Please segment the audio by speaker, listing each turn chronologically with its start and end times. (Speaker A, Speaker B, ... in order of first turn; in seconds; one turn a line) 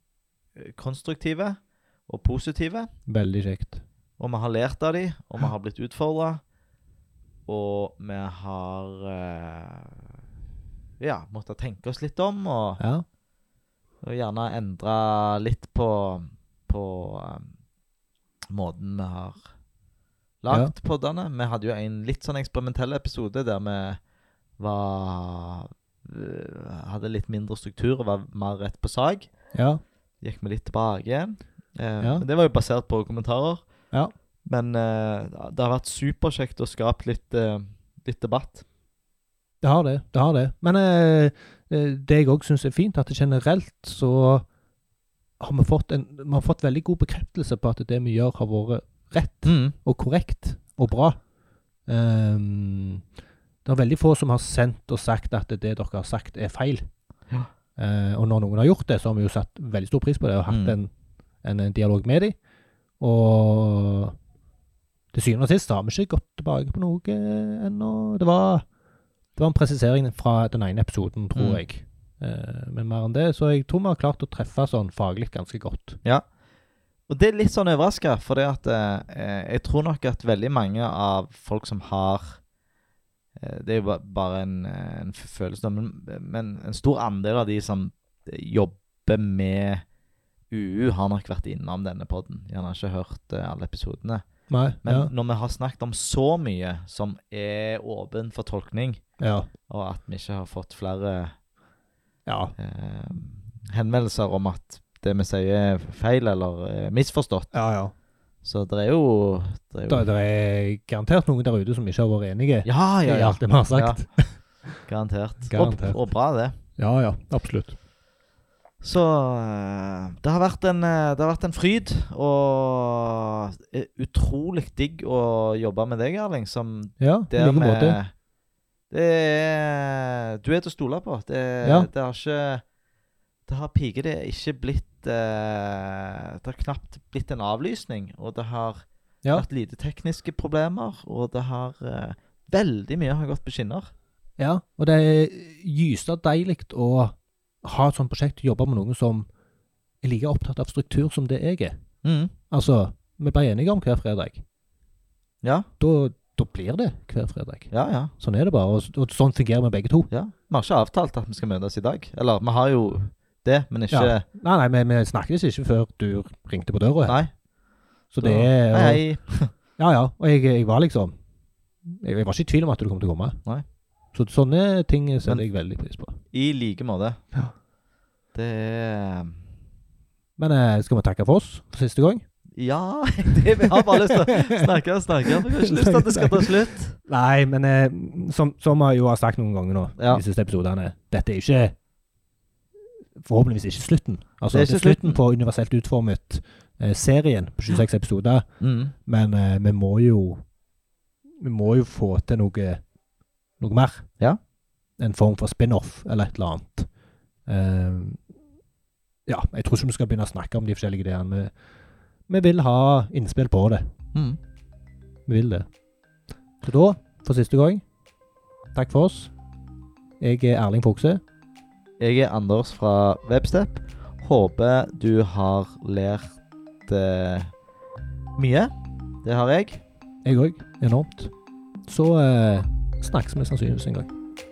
Speaker A: 0.6-2.9
Speaker B: 3.1-3.8
Speaker A: 4.2-6.4
Speaker A: 7.5-10.0
Speaker A: 11.0-12.8
Speaker B: 12.8-13.1
Speaker A: 14.0-17.5
Speaker A: 18.5-19.4
Speaker A: 20.4-24.0
Speaker A: 24.6-29.3
Speaker B: 29.5-29.8
Speaker A: 30.2-33.6
Speaker A: 34.5-38.6
Speaker B: 39.6-44.5
Speaker B: 45.4-51.2
Speaker A: 49.4-49.8
Speaker B: 51.9-53.0
Speaker B: 53.6-56.9
Speaker B: 57.8-60.9
Speaker A: 60.5-60.8
Speaker B: 61.4-62.4
Speaker B: 63.0-64.2
Speaker B: 65.1-68.7
Speaker B: 69.4-76.0
Speaker A: 71.3-71.6
Speaker A: 77.1-82.4
Speaker A: 83.4-89.8
Speaker A: 90.5-94.3
Speaker B: 94.5-95.1
Speaker A: 94.8-99.0
Speaker B: 99.2-99.5
Speaker A: 99.7-101.3
Speaker B: 102.3-102.5
Speaker A: 102.6-107.5
Speaker B: 107.5-107.9
Speaker A: 108.4-110.1
Speaker B: 109.9-114.4
Speaker A: 112.7-114.0
Speaker A: 114.8-116.6
Speaker B: 115.5-116.0
Speaker B: 116.8-117.8
Speaker A: 118.8-128.1
Speaker B: 127.0-128.0
Speaker A: 128.9-132.7
Speaker B: 131.6-131.9
Speaker A: 133.5-143.9
Speaker B: 144.4-149.3
Speaker B: 150.0-151.8
Speaker A: 152.0-152.3
Speaker B: 152.5-154.4
Speaker A: 155.4-155.7
Speaker B: 155.8-160.1
Speaker A: 157.7-158.1
Speaker A: 160.1-164.2
Speaker B: 163.9-167.2
Speaker A: 167.1-167.3
Speaker B: 168.1-169.0
Speaker A: 168.2-169.5
Speaker B: 169.8-171.2
Speaker B: 171.8-173.4
Speaker B: 174.1-176.2
Speaker A: 176.3-177.2
Speaker A: 178.3-179.4
Speaker B: 180.4-182.2
Speaker A: 182.6-187.0
Speaker B: 183.6-184.7
Speaker B: 185.3-191.8
Speaker A: 190.0-190.2
Speaker B: 193.2-198.5
Speaker A: 194.5-195.2
Speaker A: 198.6-198.9
Speaker B: 199.0-200.4
Speaker B: 201.4-202.8
Speaker B: 203.6-204.1
Speaker B: 205.0-206.9
Speaker B: 207.5-208.2
Speaker B: 209.3-211.5
Speaker B: 212.3-213.9
Speaker A: 214.1-214.4
Speaker B: 215.3-215.7
Speaker B: 216.6-217.8
Speaker B: 218.7-219.3
Speaker B: 220.2-221.2
Speaker A: 222.0-227.5
Speaker A: 228.4-228.7
Speaker A: 229.2-229.8
Speaker B: 230.2-231.3
Speaker B: 231.9-234.1